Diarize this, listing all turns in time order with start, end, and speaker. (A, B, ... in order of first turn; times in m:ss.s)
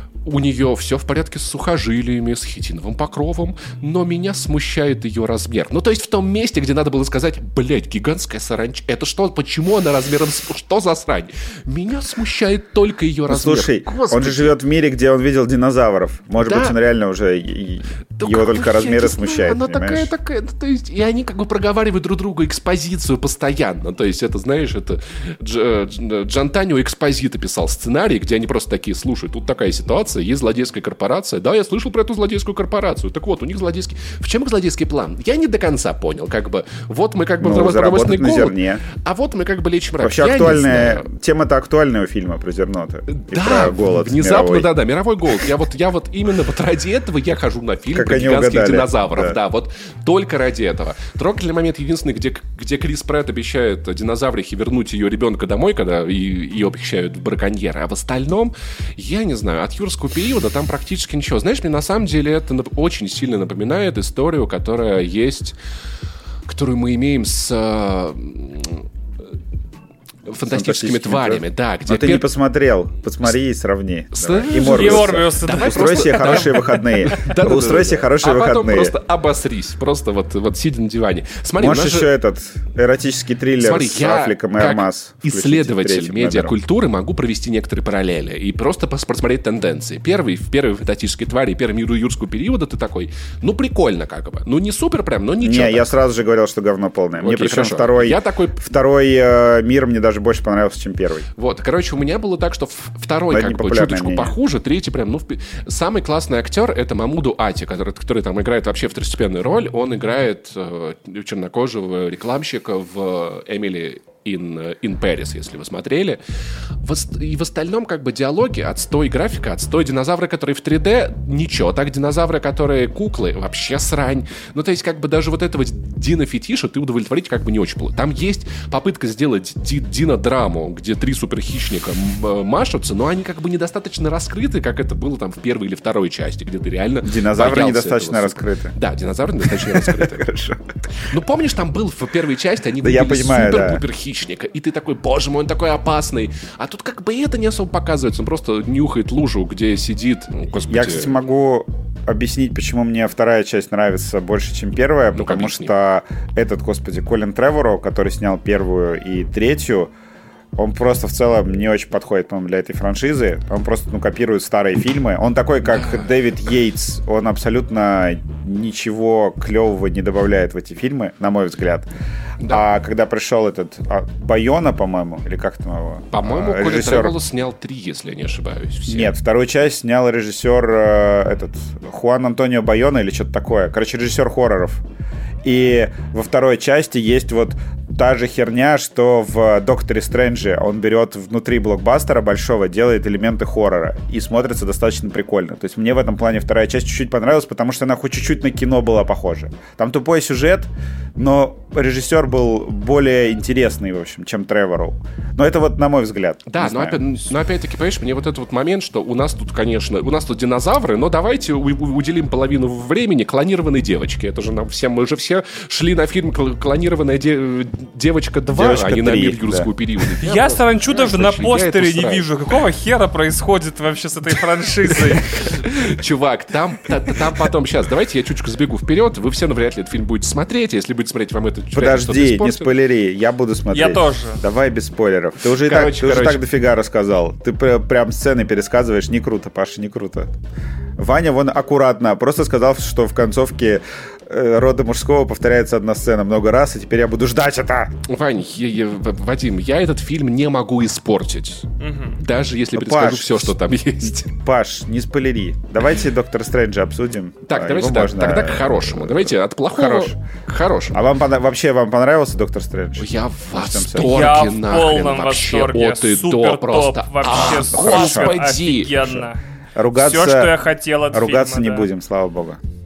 0:00.2-0:14.5 A
0:13.3-0:20.1 B
0:16.4-0:16.8 A
0:18.2-0:41.1 A
0:37.4-0:38.8 B
0:40.0-0:44.7 B
0:43.1-1:05.6 A
0:47.9-0:49.4 B
1:06.5-1:08.8 A
1:10.2-1:12.3 A
1:10.5-1:18.9 B
1:14.1-1:22.1 A
1:14.5-1:16.8 C
1:21.6-1:26.5 B
1:23.6-1:36.0 A
1:35.4-1:41.3 B
1:37.2-1:38.6 A
1:41.4-1:56.2 A
1:43.3-1:44.3 B
1:56.8-2:20.3 A
2:17.0-2:18.7 B
2:19.4-2:20.6 B
2:21.0-2:31.2 A
2:22.8-2:23.8 B
2:30.6-2:39.9 B
2:35.1-2:35.7 A
2:40.6-2:51.9 B
2:45.7-2:46.0 A
2:52.5-2:57.2 B
2:56.1-2:59.1 A
2:58.9-3:04.8 B
3:05.4-3:27.3 B
3:26.5-3:42.3 A
3:38.5-3:39.7 B
3:40.2-3:45.3 C
3:45.3-3:52.7 A
3:51.7-4:00.3 B
3:53.7-3:54.4 C
3:55.5-3:56.4 A
4:01.0-4:08.0 B
4:08.1-4:14.4 A
4:11.8-4:12.2 C
4:12.7-4:13.5 B
4:14.4-4:20.1 B
4:17.5-4:21.0 A
4:20.9-4:24.3 B
4:23.0-4:29.1 A
4:24.0-4:29.4 C
4:27.3-4:28.3 B
4:29.0-4:29.2 B
4:29.8-4:30.6 B
4:29.9-4:31.9 C
4:31.1-4:32.6 B